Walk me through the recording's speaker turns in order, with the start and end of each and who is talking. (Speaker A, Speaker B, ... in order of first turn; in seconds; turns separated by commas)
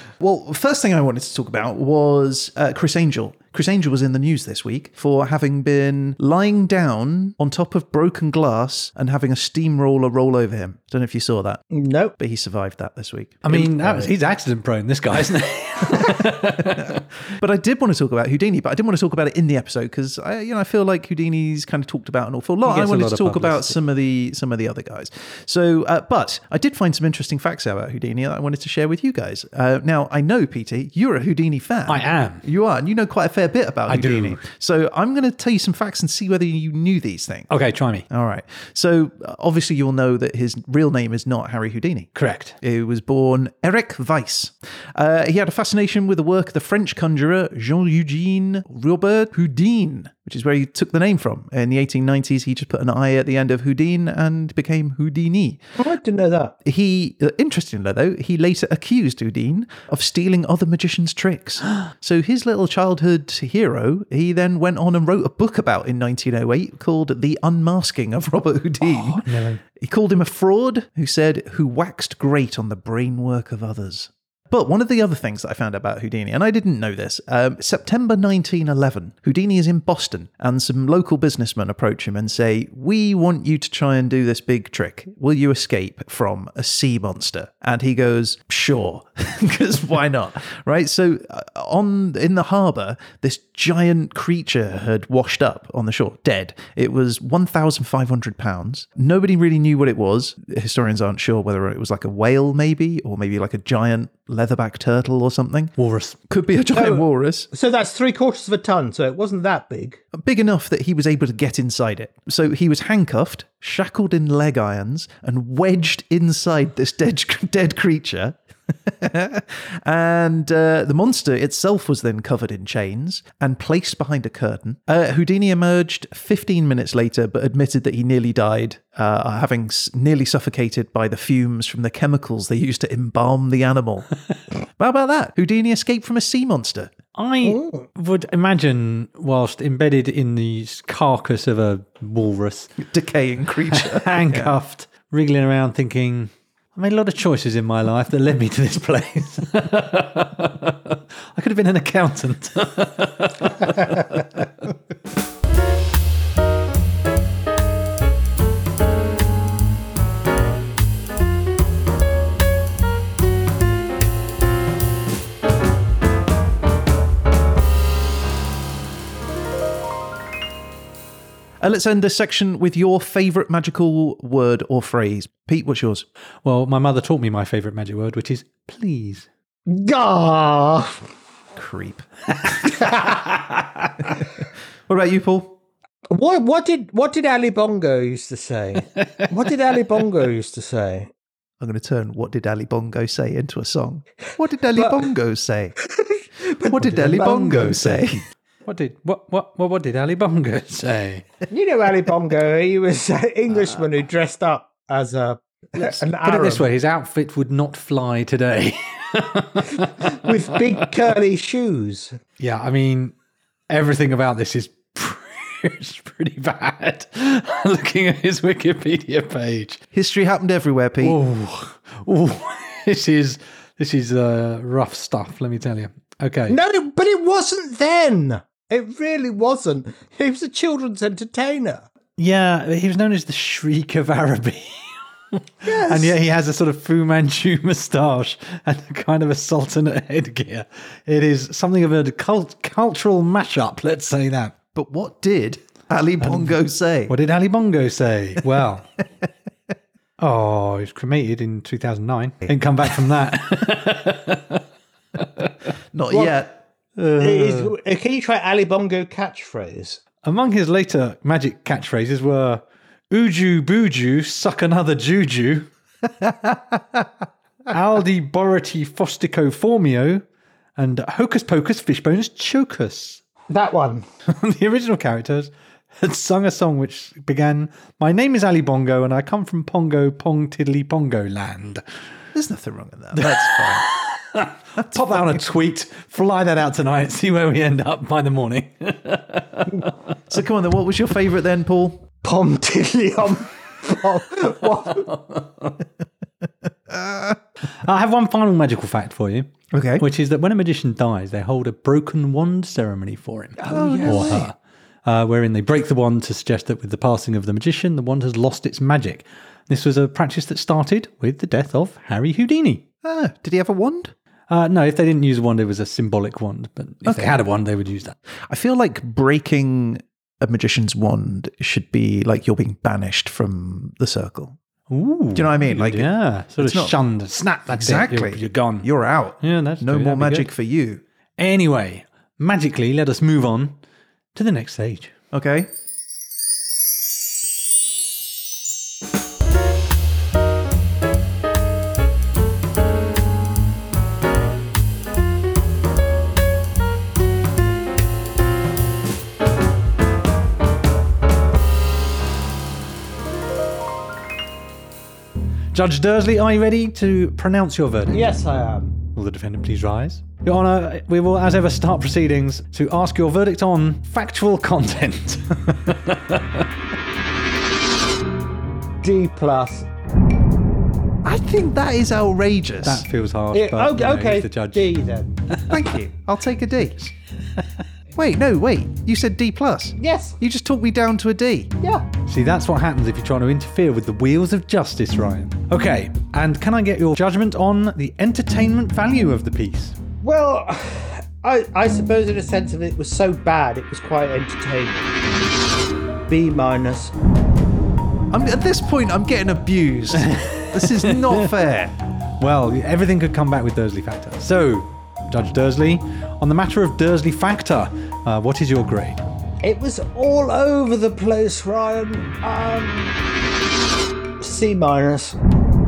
Speaker A: 0.2-11.6, Speaker B: 11.7-12.1, Speaker A: 12.2-14.1, Speaker C: 13.4-17.0, Speaker A: 16.8-37.5, Speaker C: 22.6-23.8, Speaker C: 31.9-32.4, Speaker C: 33.9-34.4, Speaker C: 37.5-38.1, Speaker A: 38.1-42.1, Speaker C: 42.1-42.5, Speaker A: 42.6-55.6, Speaker B: 55.8-56.5, Speaker A: 56.6-105.7, Speaker C: 68.8-69.6, Speaker C: 105.8-106.2, Speaker A: 106.3-107.5, Speaker B: 106.7-110.0, Speaker A: 110.1-134.1, Speaker A: 134.8-136.9, Speaker C: 137.1-142.8, Speaker B: 137.4-137.8, Speaker A: 142.8-144.6, Speaker C: 143.7-154.7, Speaker A: 171.6-176.0, Speaker C: 176.4-179.3, Speaker B: 179.7-181.1, Speaker A: 181.6-182.7, Speaker C: 182.4-184.2, Speaker B: 182.7-183.2, Speaker A: 184.9-185.6, Speaker B: 186.1-191.1, Speaker C: 188.8-189.3, Speaker A: 191.6-195.8, Speaker B: 194.7-195.0, Speaker B: 195.8-197.7, Speaker A: 196.7-198.2, Speaker C: 196.9-198.1, Speaker C: 198.6-201.3, Speaker B: 201.5-206.6, Speaker C: 205.7-210.8, Speaker B: 210.0-212.2, Speaker C: 212.4-213.1, Speaker C: 213.7-219.8, Speaker A: 219.9-221.2, Speaker C: 221.0-226.6, Speaker B: 226.5-231.8, Speaker C: 232.2-244.6, Speaker B: 235.6-236.2, Speaker A: 244.7-247.1, Speaker C: 246.2-246.6, Speaker C: 247.1-248.8, Speaker C: 250.2-254.6, Speaker C: 255.1-255.7, Speaker A: 255.9-256.5, Speaker B: 256.1-256.4, Speaker C: 257.0-257.7, Speaker B: 257.2-260.0, Speaker C: 260.2-265.7, Speaker C: 267.7-270.2, Speaker C: 270.8-273.2, Speaker B: 273.5-274.0, Speaker C: 274.2-281.8, Speaker A: 282.3-283.9, Speaker C: 283.1-289.9, Speaker A: 284.8-285.4, Speaker A: 290.3-292.0, Speaker B: 292.2-295.1, Speaker C: 294.9-295.7, Speaker A: 296.9-297.4, Speaker C: 297.8-312.9, Speaker A: 299.7-300.0, Speaker B: 303.6-304.5, Speaker A: 303.7-304.5, Speaker A: 313.0-314.1, Speaker C: 314.5-318.1, Speaker A: 317.0-317.4, Speaker A: 318.5-324.6, Speaker C: 324.9-328.9, Speaker A: 325.3-327.0, Speaker A: 327.7-331.0, Speaker C: 329.4-330.5, Speaker C: 331.4-333.8, Speaker C: 334.3-335.1, Speaker A: 335.3-335.7, Speaker C: 355.7-358.3, Speaker B: 358.1-359.0, Speaker C: 359.1-366.6, Speaker B: 369.0-369.9, Speaker A: 371.2-373.0, Speaker C: 372.8-374.9, Speaker B: 373.5-375.4, Speaker A: 375.7-377.1, Speaker A: 378.1-381.7, Speaker B: 380.0-380.4, Speaker B: 381.8-382.1, Speaker C: 382.2-390.0, Speaker B: 390.2-395.2, Speaker B: 396.3-397.1, Speaker A: 398.3-401.9, Speaker C: 400.2-401.5, Speaker C: 402.4-409.2, Speaker B: 409.6-413.2, Speaker B: 414.4-415.4